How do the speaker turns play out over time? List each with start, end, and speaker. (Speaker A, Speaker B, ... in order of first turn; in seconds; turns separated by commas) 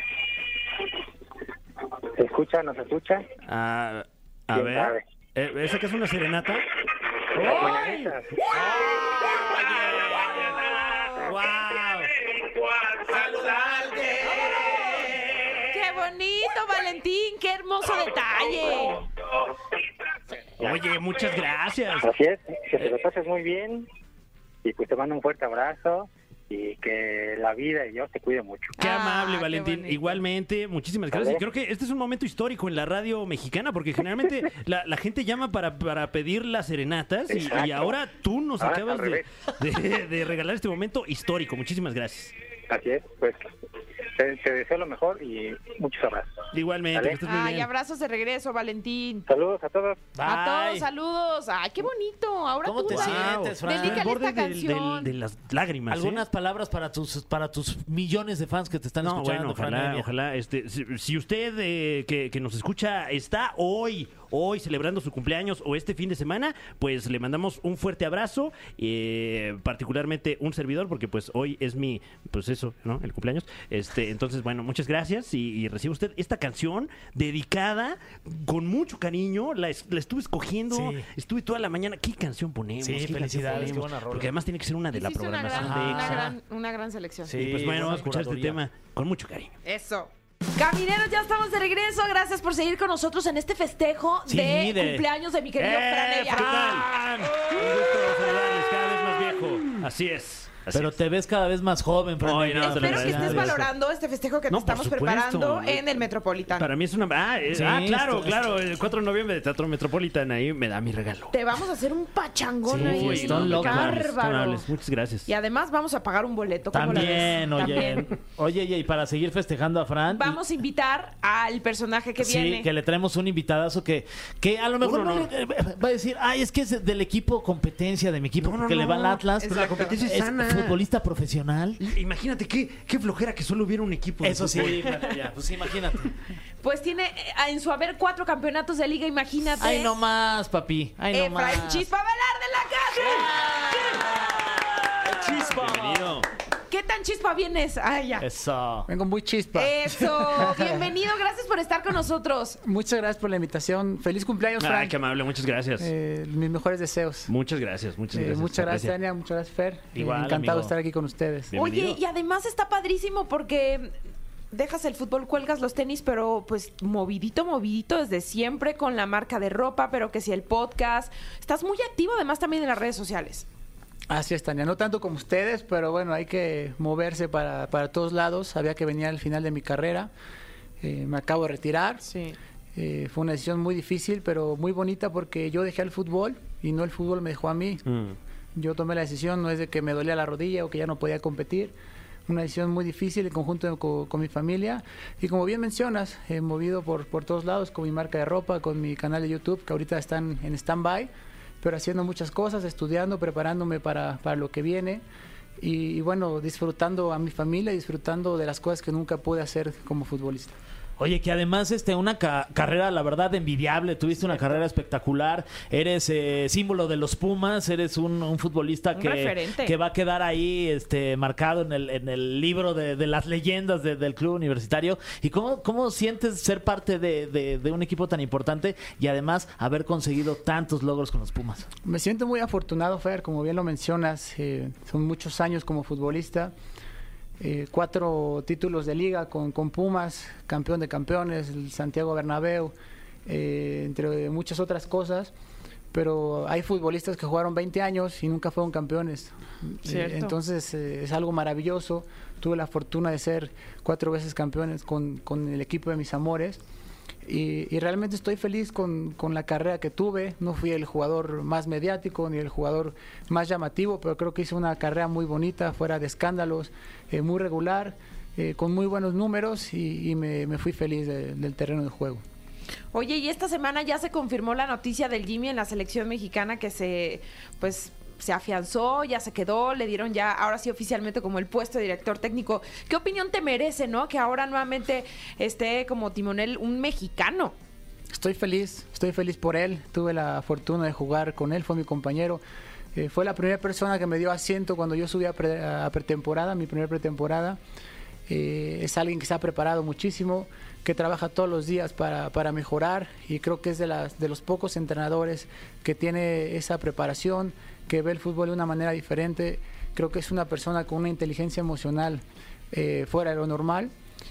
Speaker A: 2.1-3.3, Speaker B: 3.5-6.7, Speaker A: 4.5-5.0, Speaker B: 7.3-15.6, Speaker A: 7.3-8.4, Speaker C: 15.7-19.1, Speaker B: 20.6-22.1, Speaker A: 22.0-23.9, Speaker A: 24.6-28.7, Speaker C: 28.8-30.2, Speaker B: 28.8-42.3, Speaker A: 31.1-31.4, Speaker A: 37.3-38.0, Speaker A: 38.6-39.3, Speaker A: 42.7-43.5, Speaker A: 44.1-47.2, Speaker B: 46.5-47.7, Speaker C: 47.2-49.3, Speaker A: 49.3-50.0, Speaker D: 50.1-50.9, Speaker C: 50.2-55.1, Speaker D: 52.6-54.1, Speaker B: 52.9-56.2, Speaker D: 55.9-60.1, Speaker B: 59.0-86.3, Speaker D: 80.7-81.1, Speaker D: 82.8-84.3, Speaker C: 84.9-88.0, Speaker D: 85.5-86.3, Speaker D: 87.2-88.6, Speaker B: 87.4-89.5, Speaker C: 89.6-96.5, Speaker D: 94.2-95.0, Speaker B: 95.6-101.0, Speaker D: 95.9-98.4, Speaker D: 99.2-99.9, Speaker D: 100.7-103.7, Speaker B: 102.2-103.6, Speaker C: 102.6-106.7, Speaker B: 104.5-111.3, Speaker D: 107.5-108.5, Speaker C: 111.3-114.7, Speaker D: 112.7-114.1, Speaker B: 112.7-115.3, Speaker C: 115.2-118.1, Speaker D: 116.7-120.4, Speaker C: 120.1-122.7, Speaker D: 122.2-131.8, Speaker B: 124.8-125.3, Speaker B: 128.4-130.8, Speaker B: 131.8-135.0, Speaker D: 134.2-136.1, Speaker C: 136.6-139.9, Speaker D: 139.6-141.8, Speaker C: 141.1-144.4, Speaker D: 143.0-146.2, Speaker B: 145.1-146.3, Speaker C: 146.7-148.2, Speaker D: 148.2-148.9, Speaker E: 148.9-150.9, Speaker C: 149.5-152.6, Speaker E: 152.6-154.9, Speaker B: 154.6-155.9, Speaker E: 155.8-157.3, Speaker B: 157.3-158.9, Speaker E: 158.1-161.5, Speaker D: 159.9-160.7, Speaker B: 160.1-160.5, Speaker B: 161.5-162.0, Speaker C: 161.5-163.9, Speaker C: 164.5-173.4, Speaker E: 174.1-180.1, Speaker E: 180.8-182.0, Speaker C: 182.0-182.4, Speaker E: 182.7-187.8, Speaker B: 187.8-188.2, Speaker E: 188.5-191.7, Speaker E: 192.3-201.1, Speaker E: 201.6-205.0, Speaker E: 205.6-210.5, Speaker D: 211.0-231.7, Speaker C: 218.9-219.8, Speaker E: 231.8-236.5, Speaker E: 237.4-242.7, Speaker E: 243.2-245.3, Speaker E: 245.9-256.6, Speaker C: 249.8-250.3, Speaker E: 257.2-272.2, Speaker C: 272.9-287.5, Speaker E: 288.1-292.4, Speaker E: 292.9-297.6, Speaker E: 298.3-313.9